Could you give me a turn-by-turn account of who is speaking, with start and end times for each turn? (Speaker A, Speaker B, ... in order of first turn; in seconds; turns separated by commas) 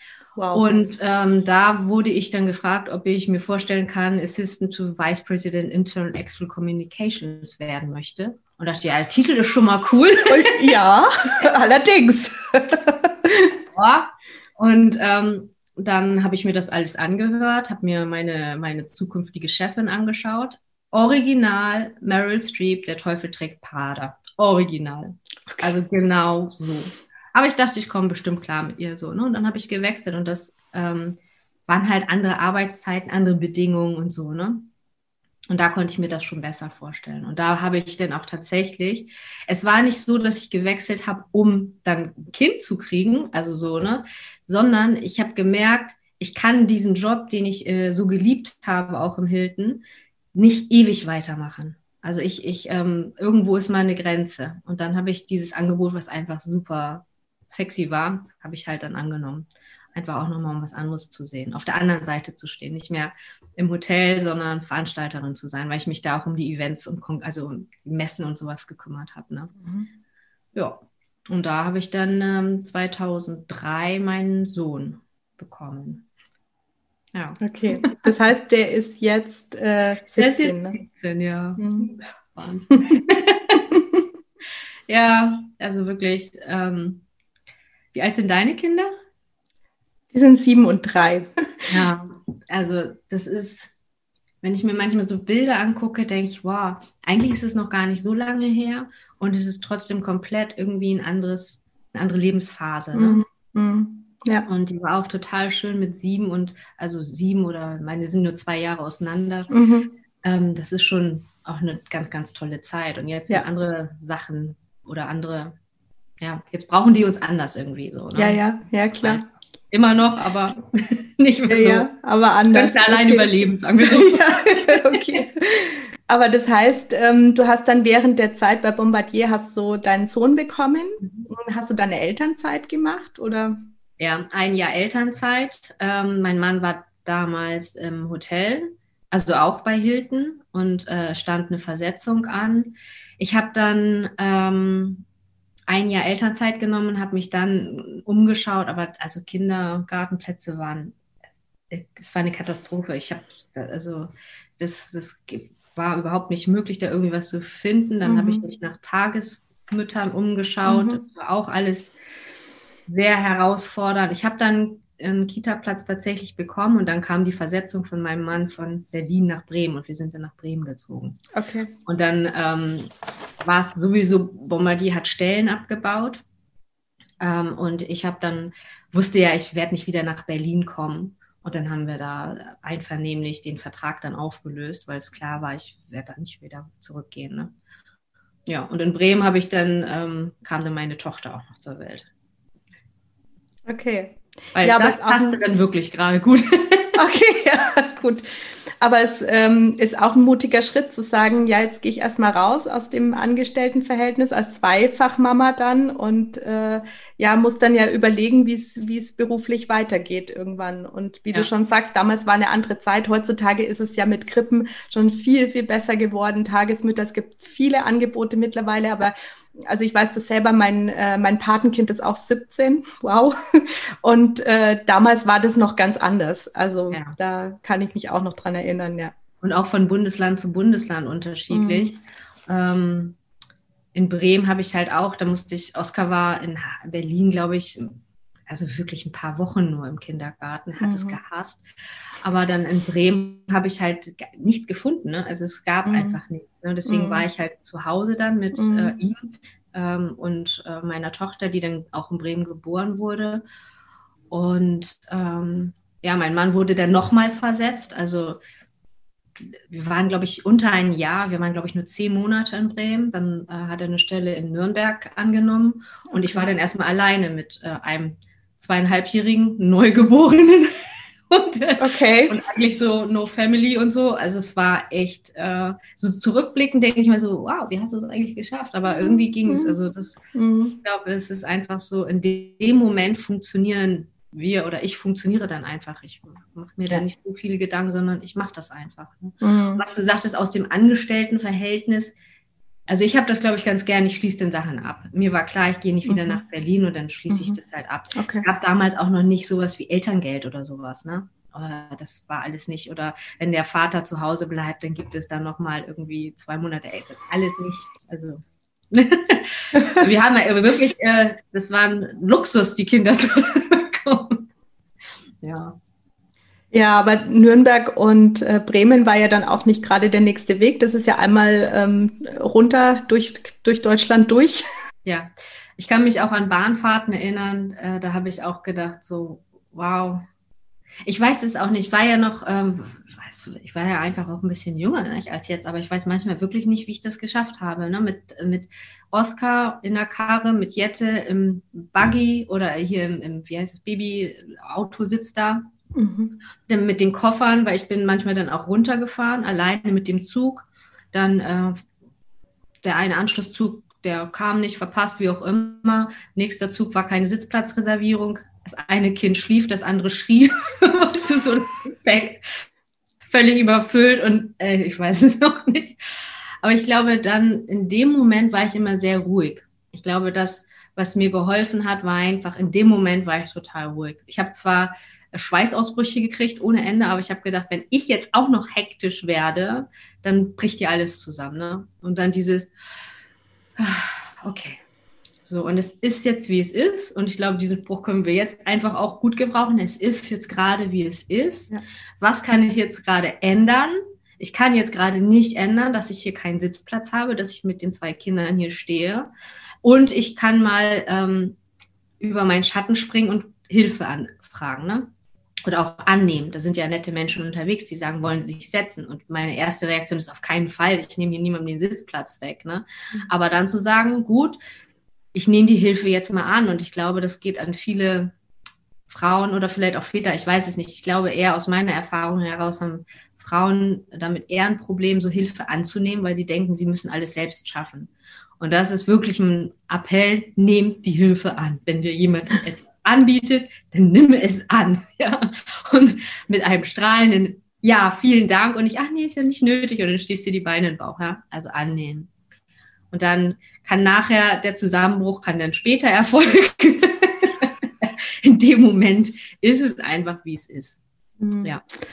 Speaker A: 0.4-0.9, Speaker B: 0.5-10.5, Speaker A: 10.3-13.5, Speaker B: 13.7-34.7, Speaker B: 35.5-69.5, Speaker A: 69.6-69.9, Speaker B: 70.5-76.0, Speaker B: 77.2-78.1, Speaker A: 77.4-80.8, Speaker B: 80.2-83.6, Speaker A: 81.6-81.9, Speaker A: 83.7-84.0, Speaker B: 84.9-87.0, Speaker B: 87.9-88.9, Speaker A: 90.1-91.7, Speaker B: 91.7-93.7, Speaker B: 94.4-103.2, Speaker A: 102.9-104.5, Speaker B: 104.5-109.5, Speaker A: 109.5-109.9, Speaker B: 110.2-115.5, Speaker B: 116.2-118.4, Speaker A: 118.2-119.2, Speaker B: 119.0-121.9, Speaker A: 121.5-123.3, Speaker B: 122.5-125.2, Speaker A: 123.8-133.7, Speaker B: 134.0-145.1, Speaker B: 145.7-151.0, Speaker B: 151.7-161.9, Speaker A: 158.0-158.4, Speaker A: 160.7-161.0, Speaker B: 162.9-171.2, Speaker A: 171.3-171.7, Speaker B: 171.9-172.9, Speaker B: 173.4-176.2, Speaker B: 177.2-187.5, Speaker B: 188.5-192.1, Speaker A: 193.7-195.4, Speaker B: 194.6-197.0, Speaker A: 197.0-229.1, Speaker B: 226.9-227.2, Speaker B: 229.4-233.2, Speaker A: 231.5-231.9, Speaker B: 233.9-241.7, Speaker A: 240.8-241.2, Speaker B: 242.2-253.4, Speaker A: 245.9-246.2, Speaker A: 246.9-247.2, Speaker A: 248.5-249.0, Speaker B: 254.3-258.4, Speaker B: 259.4-270.7, Speaker A: 266.1-266.5, Speaker B: 271.3-280.2, Speaker A: 271.8-272.4, Speaker A: 278.9-279.8, Speaker A: 280.3-280.8, Speaker B: 280.8-292.1, Speaker A: 289.4-289.8, Speaker B: 292.9-308.4, Speaker A: 296.1-296.4, Speaker A: 297.3-297.6, Speaker A: 298.2-298.5, Speaker B: 308.9-314.5, Speaker A: 309.8-310.1, Speaker B: 315.4-315.8, Speaker A: 316.7-324.6, Speaker B: 325.1-330.3, Speaker B: 331.1-345.7, Speaker A: 345.9-346.4, Speaker B: 346.7-351.9, Speaker B: 352.8-362.6, Speaker B: 363.3-366.0, Speaker B: 366.6-382.7, Speaker B: 383.8-384.8, Speaker B: 385.4-399.3, Speaker B: 399.8-401.6, Speaker B: 402.2-405.1, Speaker B: 405.7-414.6, Speaker B: 415.3-418.3, Speaker B: 419.1-442.3, Speaker B: 443.1-451.0, Speaker A: 451.4-451.7